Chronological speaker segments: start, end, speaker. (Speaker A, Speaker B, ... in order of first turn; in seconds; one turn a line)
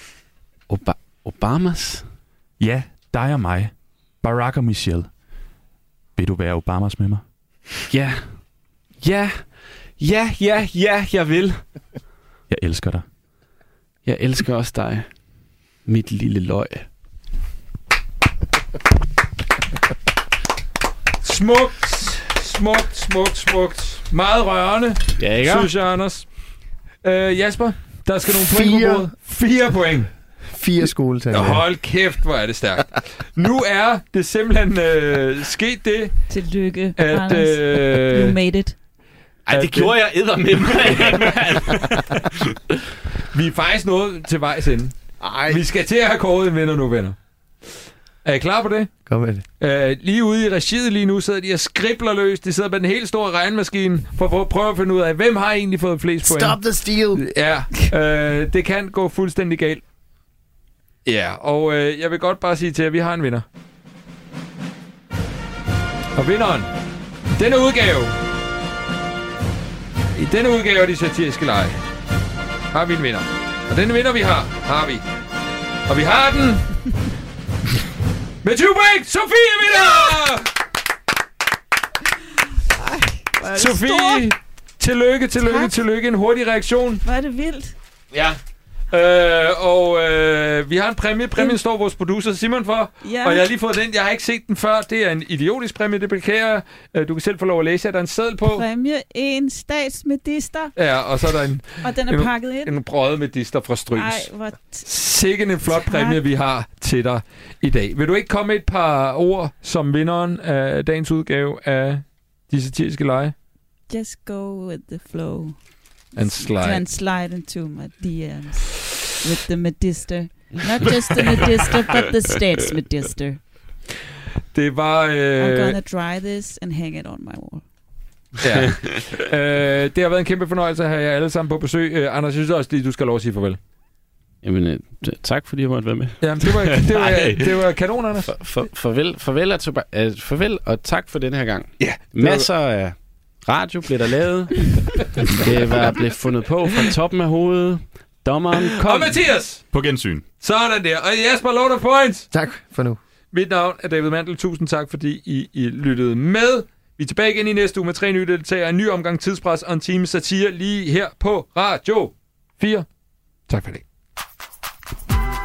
Speaker A: 0.7-2.0
Speaker B: 2.6-5.1
Speaker B: 6.2-7.2
Speaker A: 7.9-8.3
Speaker A: 9.0-11.6
Speaker B: 12.5-13.1
Speaker A: 14.1-15.1
Speaker A: 15.9-16.9
Speaker C: 21.2-26.3
Speaker A: 25.2-25.7
Speaker C: 27.0-30.1
Speaker D: 28.3-29.1
Speaker D: 30.5-31.6
Speaker C: 31.3-36.2
Speaker E: 36.3-38.8
Speaker C: 37.0-38.4
Speaker A: 39.5-41.9
Speaker C: 39.5-40.0
Speaker C: 40.9-42.3
Speaker C: 43.3-44.9
Speaker D: 45.2-45.6
Speaker C: 45.5-47.2
Speaker C: 48.2-48.9
Speaker D: 49.1-49.4
Speaker C: 49.6-56.6
Speaker D: 56.2-57.3
Speaker C: 57.1-59.8
Speaker C: 61.0-63.5
Speaker C: 66.2-66.7
Speaker C: 67.3-68.2
Speaker C: 70.2-71.8
Speaker C: 72.7-75.0
Speaker C: 75.9-76.7
Speaker C: 78.4-80.5
Speaker E: 82.7-84.3
Speaker C: 83.5-87.0
Speaker E: 85.4-85.7
Speaker E: 87.0-87.8
Speaker C: 88.9-98.7
Speaker E: 93.0-93.5
Speaker E: 98.5-100.7
Speaker C: 100.8-104.3
Speaker E: 101.8-102.7
Speaker E: 103.9-104.9
Speaker C: 104.9-113.3
Speaker E: 105.7-106.2
Speaker E: 113.9-115.6
Speaker C: 116.2-116.8
Speaker E: 116.4-123.4
Speaker C: 124.5-125.8
Speaker E: 125.4-127.6
Speaker C: 128.4-133.6
Speaker A: 134.4-137.4
Speaker C: 136.2-138.3
Speaker A: 138.3-149.2
Speaker C: 141.8-142.5
Speaker C: 145.2-145.5
Speaker C: 148.8-149.6
Speaker B: 149.7-150.2
Speaker C: 150.4-152.3
Speaker D: 152.3-153.0
Speaker C: 153.3-162.9
Speaker C: 163.5-163.8